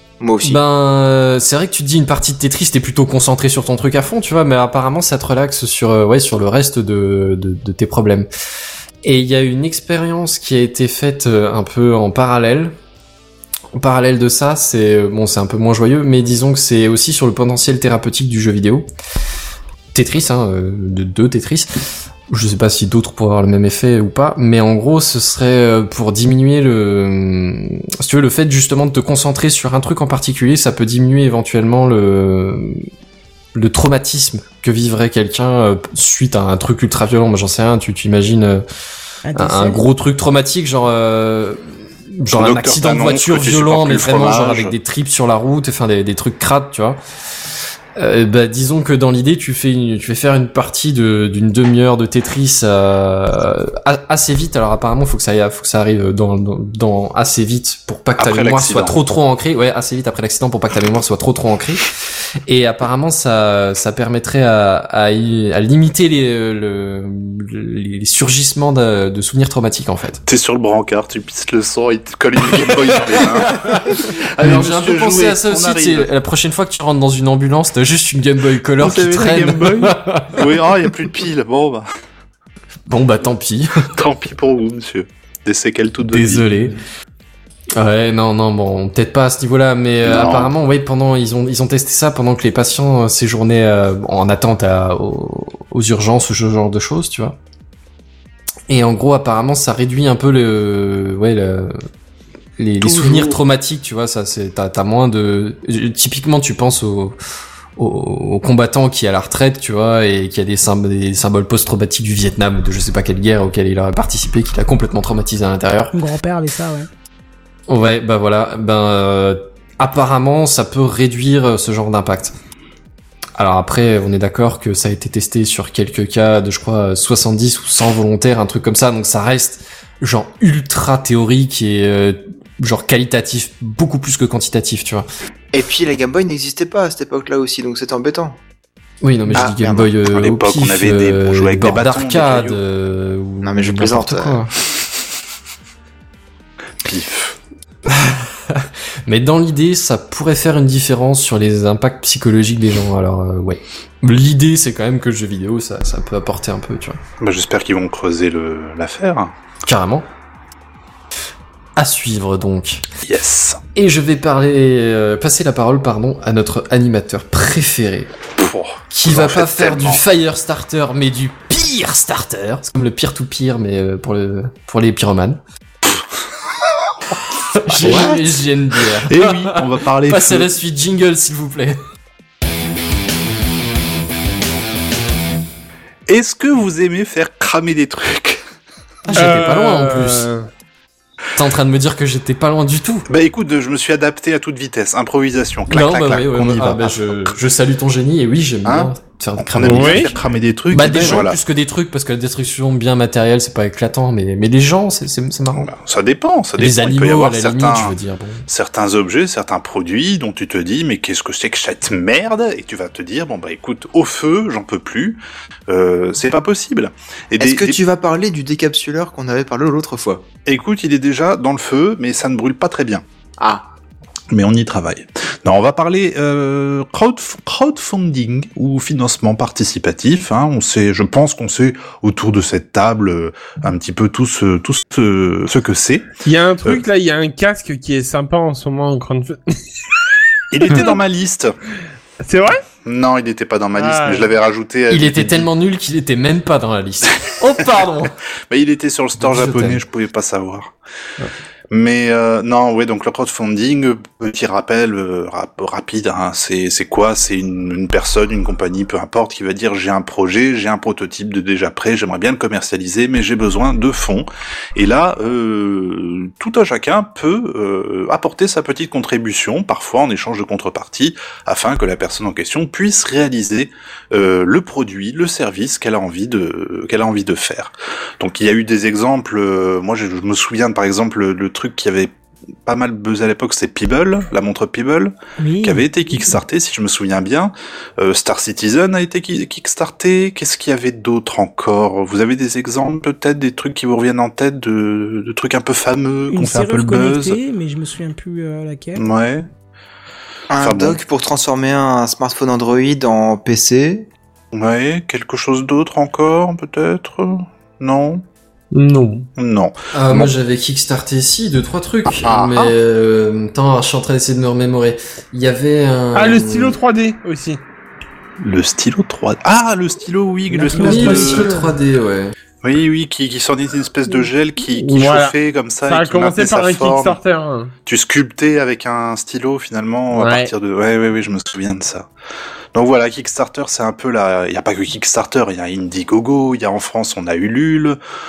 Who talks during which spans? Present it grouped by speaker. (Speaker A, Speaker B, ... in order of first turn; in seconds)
Speaker A: 0.2-0.6, 135.5-138.4, 139.3-139.9, 143.4-144.4, 217.4-220.3, 223.4-223.7, 300.5-304.1
Speaker B: 0.4-8.3, 9.0-12.8, 13.8-18.9, 19.9-21.7, 22.3-32.8, 33.5-38.6, 39.4-41.6, 42.1-47.0, 48.0-61.9, 62.5-70.2, 72.5-80.5, 82.9-83.9, 86.0-86.8, 87.8-97.4, 98.7-101.8, 102.6-107.2, 107.8-115.9, 117.7-122.3, 123.4-135.1, 139.0-144.5, 147.9-157.0, 159.7-160.1, 161.8-162.8, 163.8-168.1, 168.9-175.4, 177.6-181.8, 189.1-190.3, 191.4-193.1, 195.7-200.2, 200.7-205.7, 206.6-208.4, 244.9-248.1, 249.2-249.8, 309.9-316.8, 320.7-322.3
Speaker C: 39.2-39.8, 115.9-116.9, 285.4-285.9, 296.3-299.1, 320.5-321.7
Speaker D: 42.3-44.7, 58.2-59.0, 70.3-76.1, 78.8-81.9, 84.0-86.7, 90.0-90.5, 102.8-103.2, 140.1-142.6, 146.8-147.4, 157.2-159.3, 163.0-163.6, 168.4-170.0, 177.7-178.3, 179.0-180.5, 186.1-188.4, 193.1-197.3, 198.7-201.4, 205.5-208.0, 208.5-217.8, 220.5-223.0, 224.3-236.1, 240.5-241.6, 242.8-245.5, 248.5-250.7, 251.7-282.1, 282.7-297.4, 299.0-299.5, 300.6-301.0, 304.5-308.2, 309.4-310.3, 312.2-312.7, 318.4-321.6, 322.6-327.2, 327.9-332.1, 332.7-338.0
Speaker E: 189.1-190.5, 199.6-200.1, 236.2-239.8, 240.6-241.0, 242.2-242.6, 243.7-244.3, 308.7-309.3, 316.1-317.6, 324.7-325.4, 325.9-327.7, 330.1-330.5